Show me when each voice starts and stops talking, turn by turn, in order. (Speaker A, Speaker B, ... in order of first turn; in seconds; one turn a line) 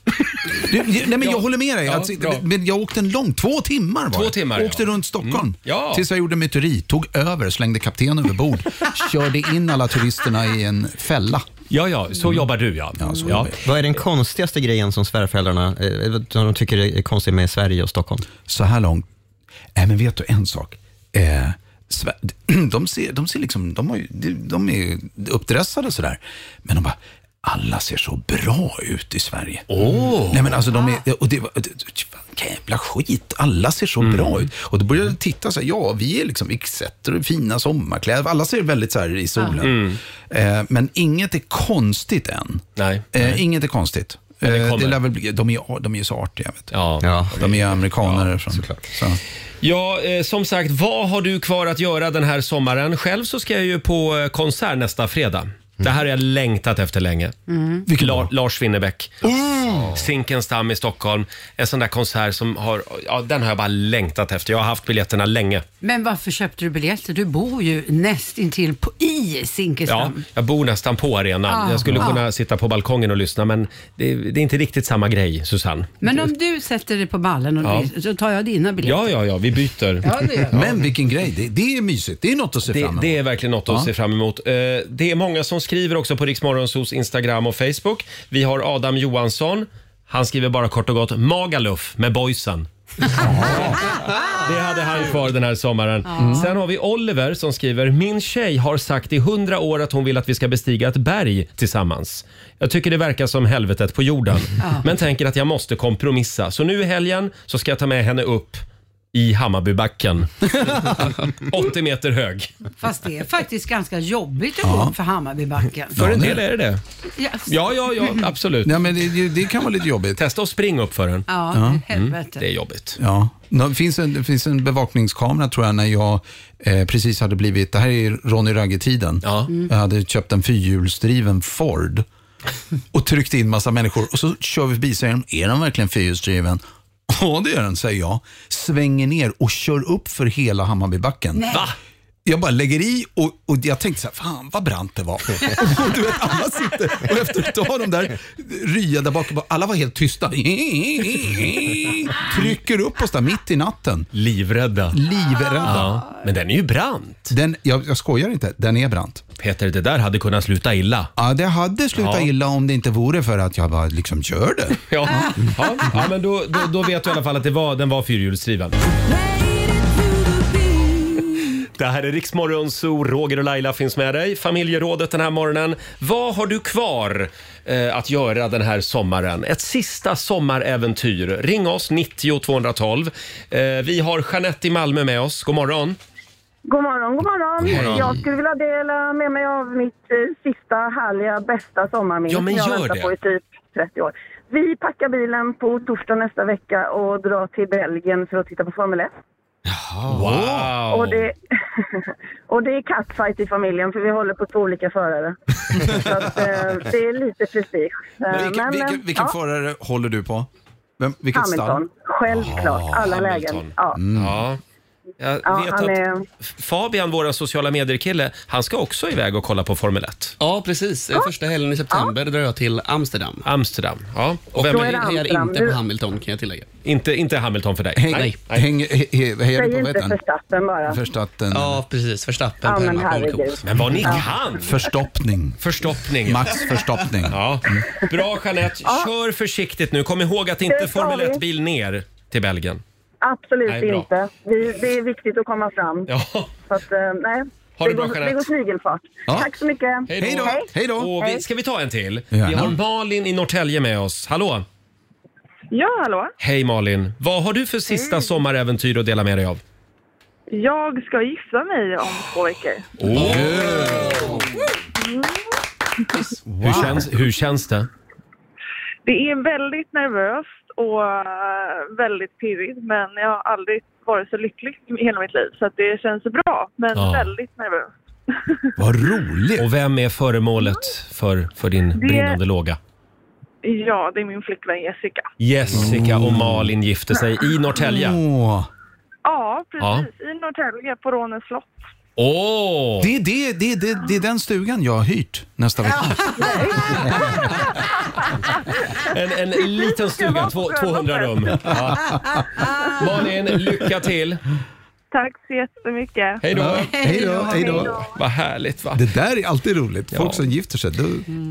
Speaker A: 0.5-11.4
Speaker B: 1.2-2.4
Speaker B: 4.1-6.0
Speaker B: 11.7-13.5
Speaker A: 13.0-13.5
Speaker C: 13.5-18.2
Speaker A: 18.5-19.0
Speaker A: 19.7-29.6
Speaker B: 29.7-30.4
Speaker A: 30.2-46.7
Speaker D: 30.7-31.0
Speaker B: 34.0-34.5
Speaker B: 39.6-40.0
Speaker B: 42.8-43.1
Speaker B: 44.4-45.0
Speaker B: 46.7-48.2
Speaker C: 47.0-47.4
Speaker A: 47.4-49.2
Speaker C: 48.5-48.8
Speaker B: 49.6-57.3
Speaker D: 57.5-57.9
Speaker A: 57.9-58.3
Speaker B: 57.9-65.6
Speaker A: 59.2-59.9
Speaker D: 65.8-70.2
Speaker B: 69.9-75.9
Speaker D: 71.5-72.2
Speaker D: 76.0-79.1
Speaker B: 77.6-77.9
Speaker B: 78.8-80.7
Speaker D: 80.0-80.7
Speaker A: 80.5-83.9
Speaker B: 82.7-92.7
Speaker B: 93.2-93.7
Speaker A: 93.2-93.8
Speaker B: 94.4-112.5
Speaker D: 96.1-96.5
Speaker A: 96.2-96.4
Speaker D: 104.6-104.9
Speaker D: 112.8-116.0
Speaker A: 114.6-114.9
Speaker A: 116.0-116.4
Speaker B: 116.0-116.8
Speaker D: 117.2-118.2
Speaker B: 117.5-118.7
Speaker A: 118.6-120.2
Speaker B: 120.2-121.3
Speaker D: 121.3-122.4
Speaker A: 121.5-121.8
Speaker B: 121.9-123.0
Speaker A: 123.0-132.0
Speaker B: 129.2-129.5
Speaker A: 132.9-141.5
Speaker D: 141.3-141.7
Speaker A: 142.2-154.1
Speaker B: 154.1-155.0
Speaker A: 154.9-156.0
Speaker B: 155.6-157.3
Speaker A: 157.3-159.2
Speaker B: 159.4-161.1
Speaker A: 161.2-165.3
Speaker B: 161.9-162.3
Speaker B: 164.9-168.7
Speaker B: 171.8-186.0
Speaker E: 186.7-199.1
Speaker B: 187.6-188.1
Speaker B: 192.3-193.1
Speaker A: 199.9-200.7
Speaker B: 200.1-201.3
Speaker E: 200.9-201.4
Speaker E: 202.5-209.3
Speaker A: 205.8-206.3
Speaker A: 208.3-210.5
Speaker A: 211.0-211.8
Speaker E: 211.3-214.0
Speaker A: 212.3-212.8
Speaker B: 212.3-214.6
Speaker A: 213.9-214.4
Speaker B: 215.2-220.3
Speaker E: 215.4-216.2
Speaker F: 220.4-223.4
Speaker B: 223.4-225.0
Speaker E: 224.6-225.8
Speaker F: 224.6-226.7
Speaker B: 226.8-228.6
Speaker A: 227.9-230.2
Speaker F: 228.1-228.4
Speaker E: 229.5-231.0
Speaker A: 230.8-231.8
Speaker F: 231.5-233.6
Speaker E: 232.6-234.2
Speaker B: 233.6-234.7
Speaker A: 234.1-235.6
Speaker B: 235.6-236.6
Speaker A: 236.2-237.8
Speaker B: 237.2-242.8
Speaker E: 238.8-239.1
Speaker E: 240.7-241.4
Speaker E: 243.2-246.1
Speaker B: 243.7-244.1
Speaker B: 246.1-246.5
Speaker E: 246.7-251.4
Speaker B: 247.8-248.5
Speaker A: 249.3-249.5
Speaker B: 250.1-254.6
Speaker A: 250.2-251.1
Speaker A: 252.3-252.8
Speaker G: 255.7-256.3
Speaker B: 256.4-259.6
Speaker G: 260.5-262.9
Speaker B: 263.0-264.3
Speaker A: 263.1-264.4
Speaker G: 265.0-265.3
Speaker A: 266.1-267.1
Speaker B: 266.6-267.9
Speaker G: 269.0-277.9
Speaker B: 276.9-277.3
Speaker A: 278.8-279.7
Speaker B: 279.6-282.8
Speaker G: 281.9-282.4
Speaker G: 283.6-285.3
Speaker B: 285.4-288.2
Speaker A: 285.7-286.7
Speaker A: 287.8-288.7
Speaker G: 289.2-291.8
Speaker B: 289.8-290.1
Speaker B: 292.2-293.1
Speaker A: 293.0-297.6
Speaker D: 296.4-296.7
Speaker B: 299.0-302.1
Speaker G: 300.2-301.3
Speaker B: 303.0-304.4
Speaker G: 305.1-306.4
Speaker B: 306.4-307.2
Speaker A: 306.5-307.9
Speaker D: 306.7-307.9
Speaker G: 307.4-308.0
Speaker B: 307.9-309.0
Speaker A: 308.9-311.2
Speaker B: 310.1-310.4